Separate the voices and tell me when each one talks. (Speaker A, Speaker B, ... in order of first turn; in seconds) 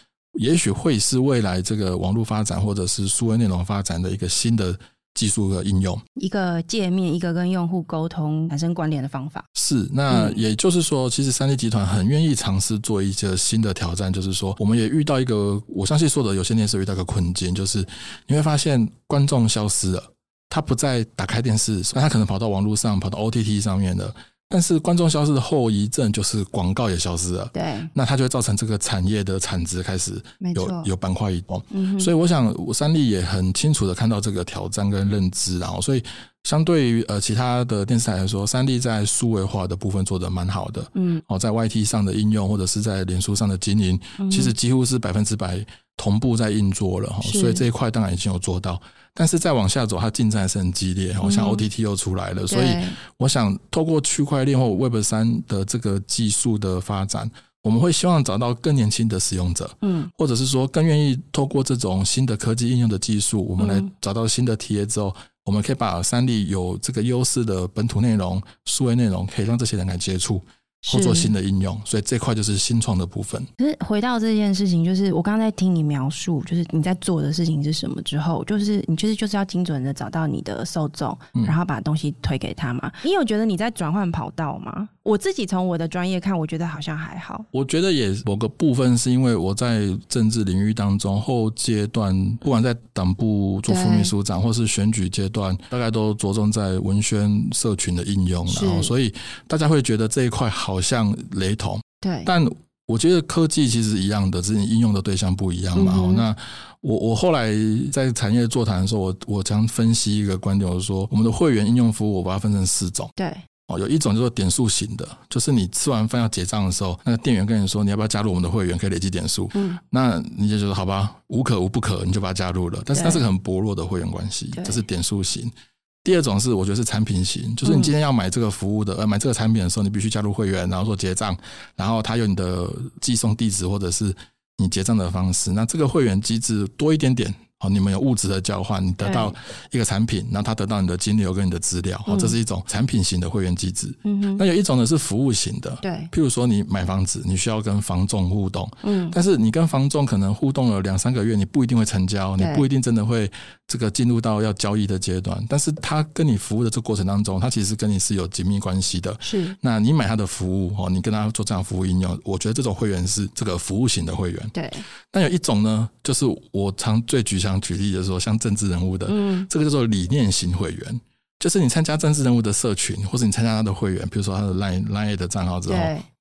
Speaker A: 0.3-6.0, 9.6-73.5, 87.5-113.1, 113.7-125.5, 126.0-164.5, 165.1-175.9
Speaker B: 6.2-9.5, 10.1-10.4, 27.5-27.9, 30.4-30.9, 31.7-32.1, 41.0-41.2, 44.2-44.5, 47.2-47.6, 51.2-51.6, 52.5-53.0, 59.8-60.1, 63.6-63.9, 70.8-71.3, 73.6-87.5, 93.7-94.1, 98.5-98.9, 102.0-102.3, 105.8-106.3, 113.2-113.5, 119.5-119.8, 122.9-123.3, 124.5-124.8, 127.7-127.9, 139.0-139.3, 142.1-142.3, 144.1-144.4, 145.8-146.1, 148.8-149.2, 152.4-152.7, 159.2-159.6, 164.5-164.9, 169.1-169.5, 175.7-176.1